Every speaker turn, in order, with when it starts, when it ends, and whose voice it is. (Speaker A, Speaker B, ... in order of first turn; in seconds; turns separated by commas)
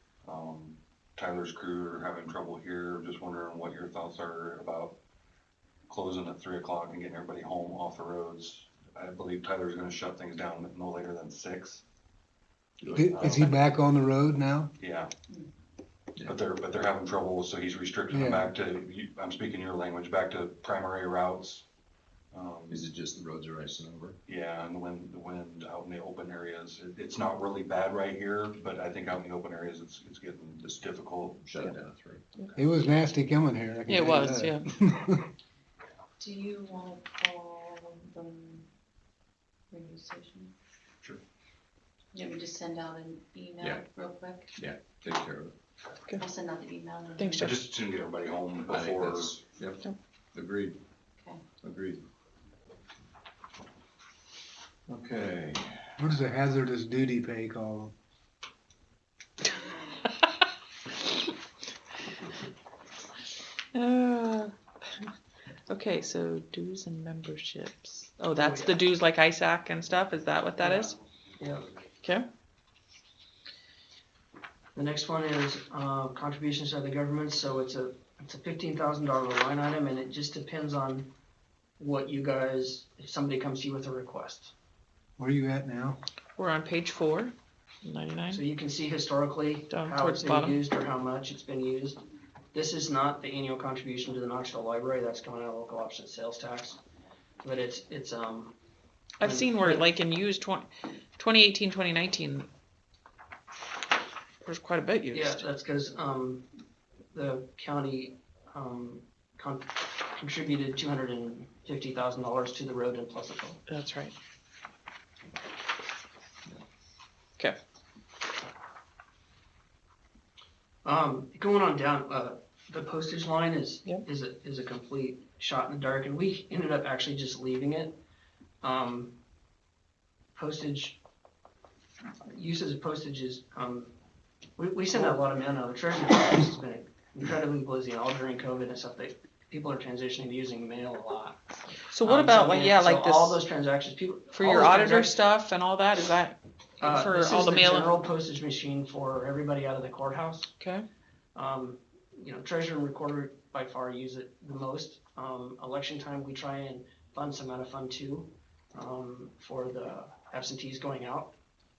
Speaker A: 0.2-5.0, Speaker A: 5.9-11.8, Speaker B: 12.8-13.5, Speaker C: 12.9-14.7, Speaker A: 12.9-13.5, Speaker A: 14.8-15.1, Speaker A: 16.2-21.6, Speaker C: 18.1-18.5, Speaker A: 22.3-22.8, Speaker B: 22.7-24.2, Speaker A: 24.2-31.4, Speaker B: 31.4-32.2, Speaker C: 32.5-35.3, Speaker D: 33.9-34.7, Speaker E: 36.2-38.6, Speaker E: 39.7-40.5, Speaker E: 42.1-44.5, Speaker B: 43.6-44.0, Speaker B: 44.5-45.5, Speaker E: 46.4-47.0, Speaker D: 47.2-47.6, Speaker A: 47.3-49.4, Speaker B: 48.7-50.8, Speaker B: 51.5-52.0, Speaker B: 54.9-55.9, Speaker C: 56.0-57.9, Speaker D: 63.7-65.1, Speaker D: 65.7-71.0, Speaker F: 68.3-68.8, Speaker F: 70.6-71.7, Speaker F: 74.7-81.1, Speaker F: 81.8-84.5, Speaker C: 85.2-86.0, Speaker D: 86.4-88.4, Speaker F: 88.3-92.0, Speaker D: 89.7-90.6, Speaker F: 92.5-96.8, Speaker F: 97.4-98.5, Speaker D: 99.2-102.5, Speaker F: 99.2-99.8, Speaker D: 104.4-105.4, Speaker F: 105.1-106.5, Speaker F: 107.1-113.6, Speaker D: 113.7-114.1, Speaker F: 120.8-128.0, Speaker F: 128.6-129.1, Speaker F: 130.3-131.0, Speaker F: 132.3-133.9, Speaker F: 134.6-141.5, Speaker D: 134.9-135.2, Speaker D: 141.9-143.4, Speaker F: 142.0-145.2, Speaker D: 144.3-148.0, Speaker F: 146.8-150.5, Speaker D: 150.6-150.8, Speaker F: 151.3-161.3